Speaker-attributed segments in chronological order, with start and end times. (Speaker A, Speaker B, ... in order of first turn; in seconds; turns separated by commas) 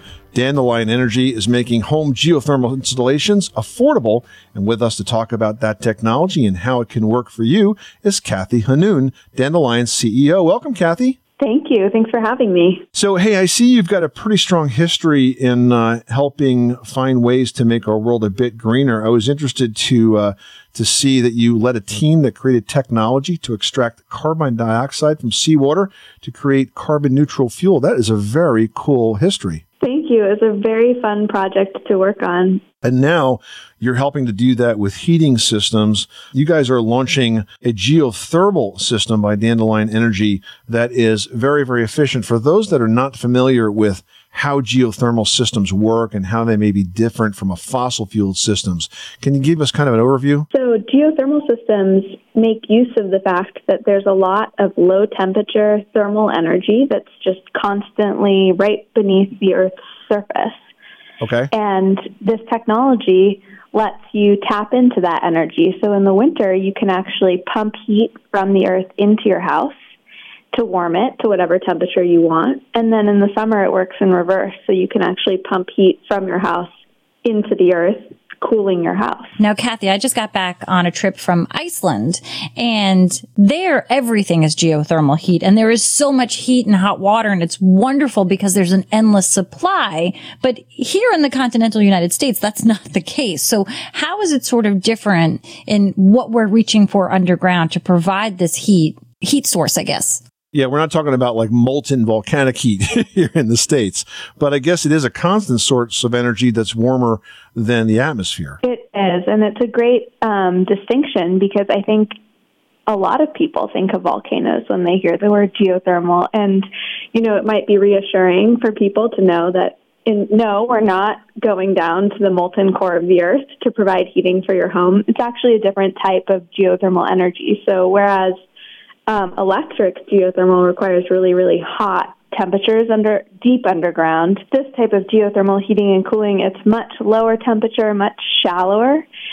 Speaker A: 0.3-11.2, Speaker B: 11.4-12.8, Speaker A: 12.9-29.6, Speaker B: 29.8-32.6, Speaker A: 32.8-50.5, Speaker B: 50.5-60.6, Speaker A: 61.2-61.5, Speaker B: 61.5-69.7, Speaker B: 70.5-76.7, Speaker B: 77.2-79.3, Speaker C: 79.4-100.2, Speaker A: 100.5-108.6, Speaker B: 108.6-112.1, Speaker B: 112.9-128.3, Speaker B: 129.1-139.1